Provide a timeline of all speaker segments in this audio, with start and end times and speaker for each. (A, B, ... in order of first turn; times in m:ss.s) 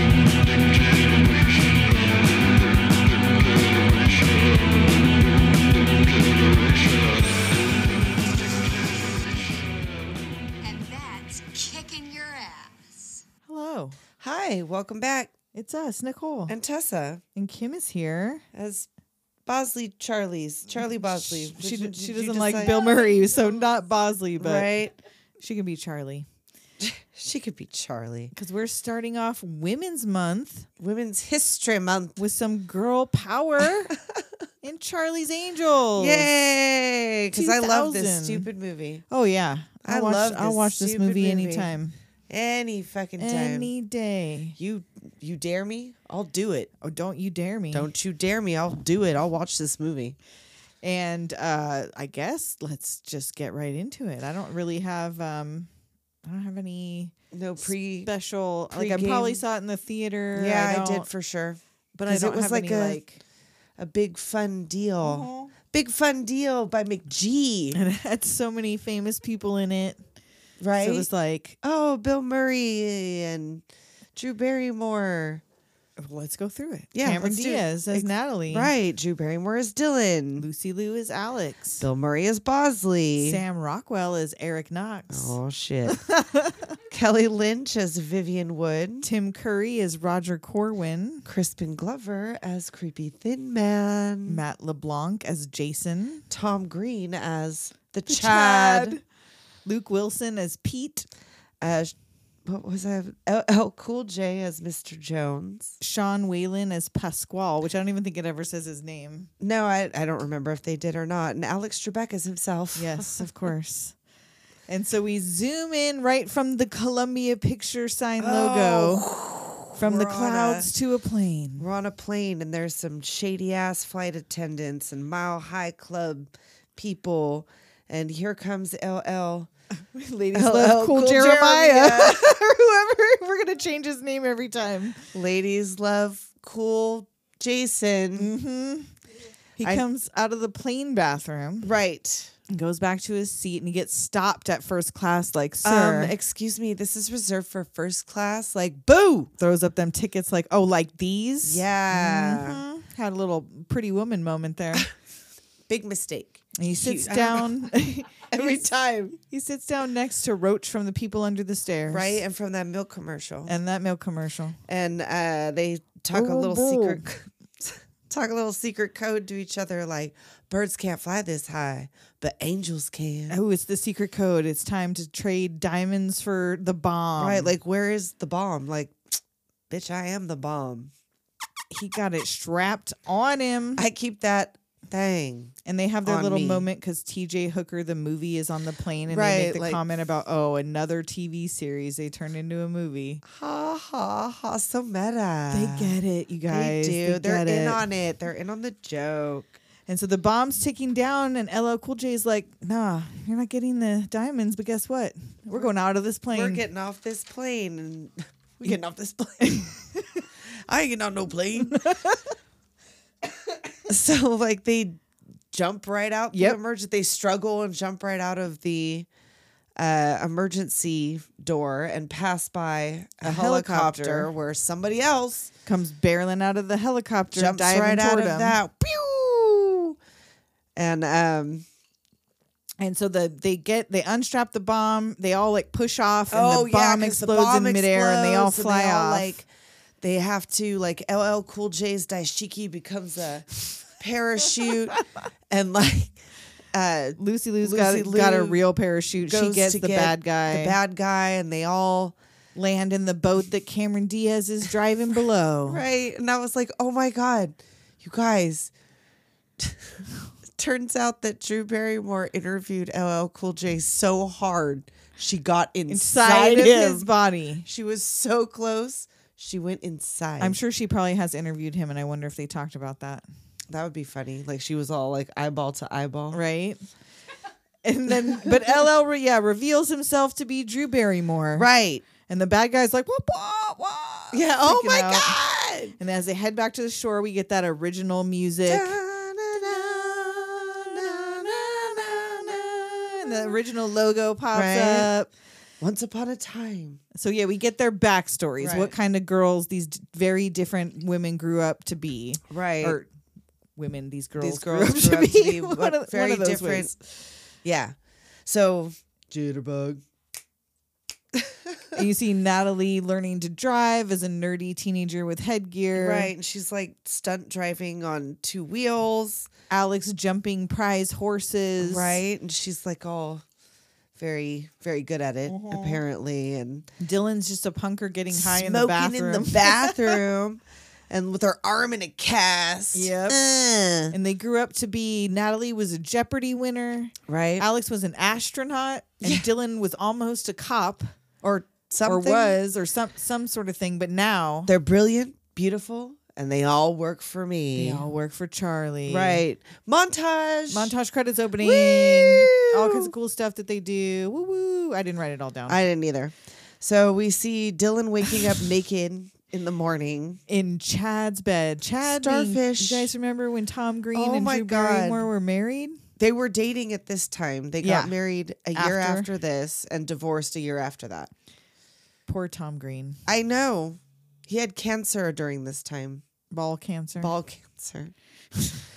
0:00.8-0:01.7 A
0:03.5-0:09.7 A
0:10.6-0:13.2 A
0:13.4-0:14.0 B
0:14.2-0:15.3 C
0:15.5-0:16.6 B
0:16.5-0:17.2 C
0:17.4-0:18.4 B
0:18.5-0:18.9 C
0:19.4-0:22.8 C
0:20.9-0:24.7 B
0:24.4-0:24.9 C
0:25.4-0:26.2 B
0:26.8-0:28.3 C
0:28.3-0:30.7 B
0:30.8-0:32.2 C
0:32.2-0:33.9 B
0:33.9-0:34.2 C
0:34.6-0:36.3 B
0:36.0-0:39.0 C
0:37.3-0:38.5 B
0:39.1-0:42.0 B
0:39.8-0:41.7 C
0:42.3-0:43.7 C
0:43.2-0:44.6 B
0:44.6-0:46.7 C
0:46.8-0:47.9 B
0:47.7-0:50.2 C
0:50.8-0:55.7 B
0:56.2-1:01.1 B
0:57.3-0:58.1 C
0:58.7-0:59.4 C
1:00.3-1:03.0 C
1:02.0-1:03.2 B
1:03.8-1:07.8 C
1:05.0-1:05.5 B
1:07.7-1:10.0 B
1:10.6-1:11.1 C
1:10.8-1:11.6 B
1:11.6-1:13.6 C
1:14.1-1:15.4 C
1:16.0-1:18.7 B
1:16.9-1:20.5 C
1:20.4-1:21.8 B
1:21.8-1:23.4 C
1:23.2-1:25.4 B
1:25.1-1:26.0 C
1:26.0-1:26.6 B
1:26.9-1:29.1 C
1:29.0-1:31.3 B
1:31.2-1:34.4 C
1:34.3-1:36.2 B
1:36.3-1:39.0 C
1:38.1-1:39.0 B
1:39.6-1:41.1 B
1:41.6-1:45.7 C
1:45.8-1:49.3 B
1:49.4-1:53.3 C
1:52.8-1:53.9 B
1:54.7-1:59.1 B
1:58.2-2:00.7 C
1:59.7-2:01.7 B
2:01.6-2:09.5 C
2:09.8-2:15.1 B
2:10.3-2:12.3 C
2:15.1-2:18.3 C
2:18.2-2:18.9 B
2:19.6-2:19.8 C
2:19.6-2:21.7 B
2:21.6-2:22.3 C
2:22.5-2:26.1 B
2:25.6-2:29.3 C
2:29.4-2:34.9 B
2:31.4-2:32.6 C
2:35.7-2:37.5 C
2:36.6-2:38.6 B
2:38.3-2:39.2 C
2:39.2-2:42.2 B
2:41.9-2:43.6 C
2:43.5-2:44.6 B
2:44.7-2:53.4 C
2:46.1-2:47.0 B
2:53.3-2:57.5 B
2:57.2-2:59.0 C
2:59.7-3:00.9 C
3:01.7-3:03.8 B
3:03.8-3:06.7 C
3:05.6-3:13.2 B
3:09.1-3:09.8 C
3:13.2-3:15.9 C
3:15.5-3:17.8 B
3:16.5-3:19.5 C
3:19.9-3:26.6 B
3:26.3-3:29.7 C
3:30.7-3:31.8 C
3:31.8-3:32.2 B
3:33.8-3:39.1 C
3:36.3-3:36.6 B
3:39.8-3:45.5 C
3:43.2-3:44.3 B
3:45.6-3:48.6 B
3:47.3-3:49.9 C
3:50.8-3:51.6 C
3:52.8-3:59.3 B
3:56.3-3:59.5 C
4:00.0-4:05.0 C
4:05.5-4:06.1 C
4:06.7-4:08.6 C
4:07.2-4:10.8 B
4:09.2-4:12.2 C
4:12.6-4:15.8 B
4:15.7-4:18.7 C
4:19.6-4:19.9 C
4:20.6-4:27.1 C
4:25.9-4:27.6 B
4:27.6-4:30.6 C
4:30.4-4:33.2 B
4:33.7-4:36.4 C
4:36.3-4:36.8 B
4:37.8-4:41.7 B
4:38.1-4:38.8 C
4:41.6-4:42.0 C
4:42.2-4:45.4 B
4:44.3-4:46.0 C
4:46.0-4:49.0 B
4:48.7-4:53.5 C
4:52.2-4:55.3 B
4:54.5-4:55.1 C
4:55.8-4:57.0 C
4:57.1-5:03.1 B
4:58.6-4:58.9 C
5:02.5-5:03.0 C
5:03.8-5:07.3 B
5:04.4-5:06.9 C
5:07.6-5:10.0 C
5:11.3-5:12.0 C
5:11.9-5:16.3 B
5:15.9-5:19.5 C
5:19.7-5:22.2 B
5:21.8-5:23.4 C
5:24.1-5:26.9 C
5:25.5-5:26.0 B
5:27.0-5:30.2 B
5:28.3-5:34.1 C
5:32.9-5:33.4 B
5:34.1-5:41.1 B
5:37.3-5:37.6 C
5:39.2-5:39.5 C
5:41.4-5:42.6 C
5:42.0-5:44.7 B
5:44.7-5:48.0 C
5:47.7-5:49.4 B
5:49.1-5:50.9 C
5:50.7-5:55.8 B
5:51.6-5:53.1 C
5:55.7-6:00.4 C
6:00.5-6:06.0 B
6:02.0-6:03.1 C
6:04.1-6:05.3 C
6:06.2-6:11.3 C
6:07.8-6:08.1 B
6:08.7-6:09.3 B
6:12.3-6:13.2 B
6:13.3-6:16.2 C
6:16.5-6:17.3 B
6:17.2-6:18.1 C